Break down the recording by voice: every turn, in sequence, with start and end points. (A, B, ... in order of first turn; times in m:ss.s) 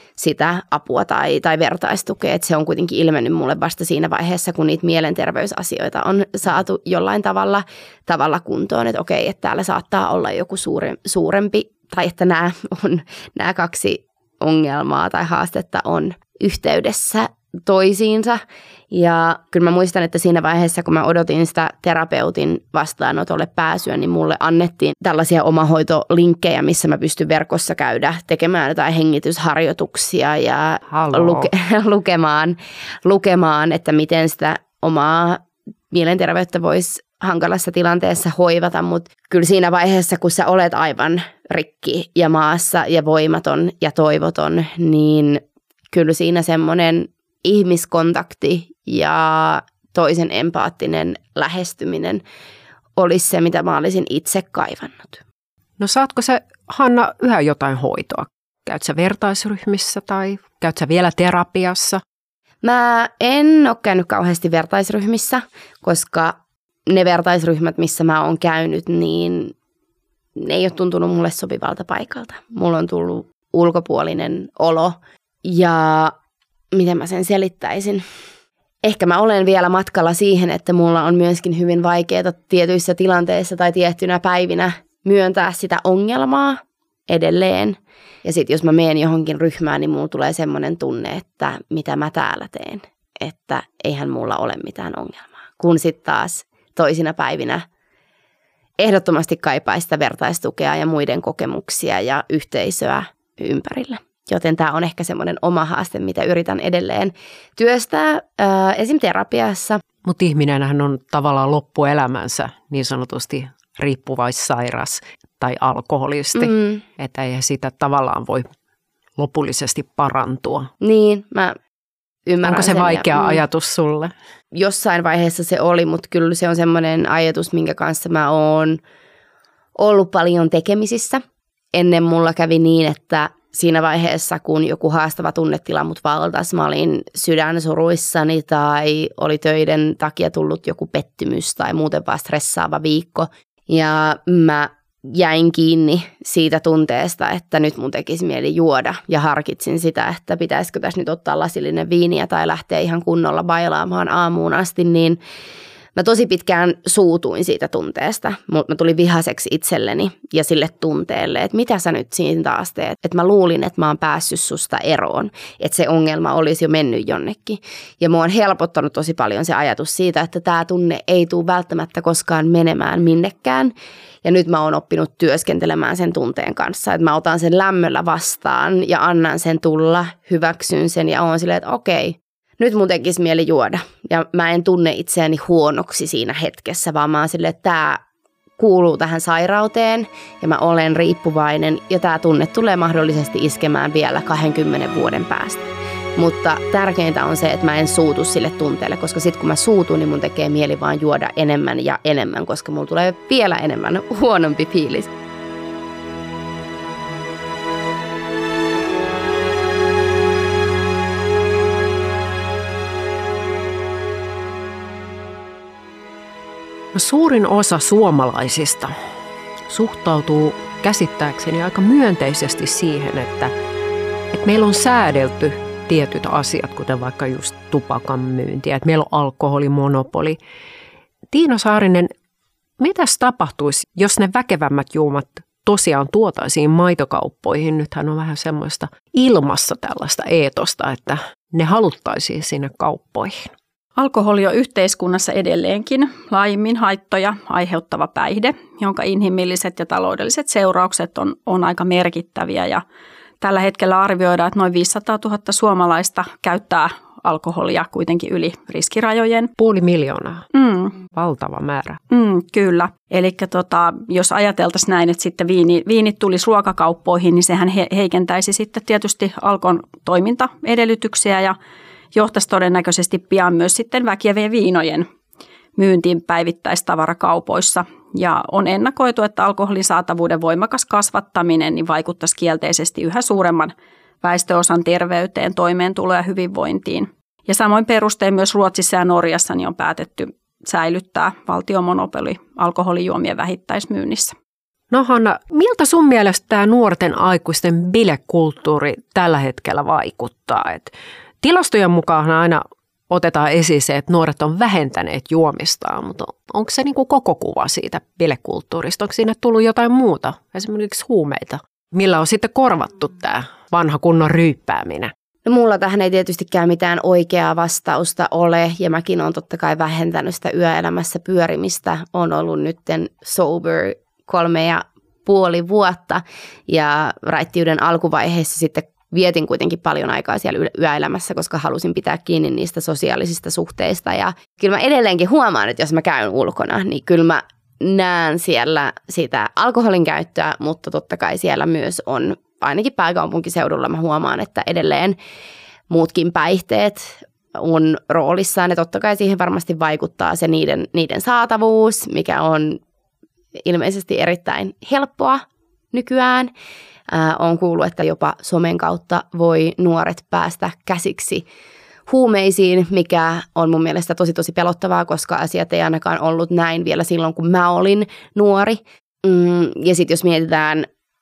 0:00.2-0:18.4 A
0:18.9-0:52.2 A
0:30.9-0:31.5 B
0:53.0-0:55.2 A
0:55.8-1:02.0 B
1:02.6-1:09.5 A
1:10.4-1:16.1 A
1:16.7-1:18.0 A
1:18.8-1:37.6 A
1:38.8-1:49.8 A
1:50.0-1:58.5 B
1:56.4-1:56.8 A
1:59.2-2:00.7 B
2:00.8-2:01.6 A
2:02.3-2:03.4 A
2:02.4-2:04.1 B
2:04.5-2:08.8 A
2:09.8-2:11.2 A
2:11.7-2:35.2 A
2:36.0-2:53.7 A
2:54.2-3:08.0 A
3:08.6-3:25.1 A
3:36.9-3:38.9 B
3:39.7-3:43.5 B
3:44.3-3:50.4 B
3:51.3-3:52.1 B
3:52.8-4:03.5 B
4:04.0-4:12.8 C
4:13.4-4:19.5 C
4:19.6-4:20.5 B
4:20.5-4:20.9 C
4:21.0-4:22.0 B
4:22.1-4:31.6 C
4:32.1-4:35.1 C
4:35.8-4:54.4 C
4:54.9-5:15.1 B
5:15.4-5:45.2 A
5:45.9-5:52.8 A
5:53.6-5:56.5 A
5:57.1-6:01.4 A
6:02.1-6:10.9 A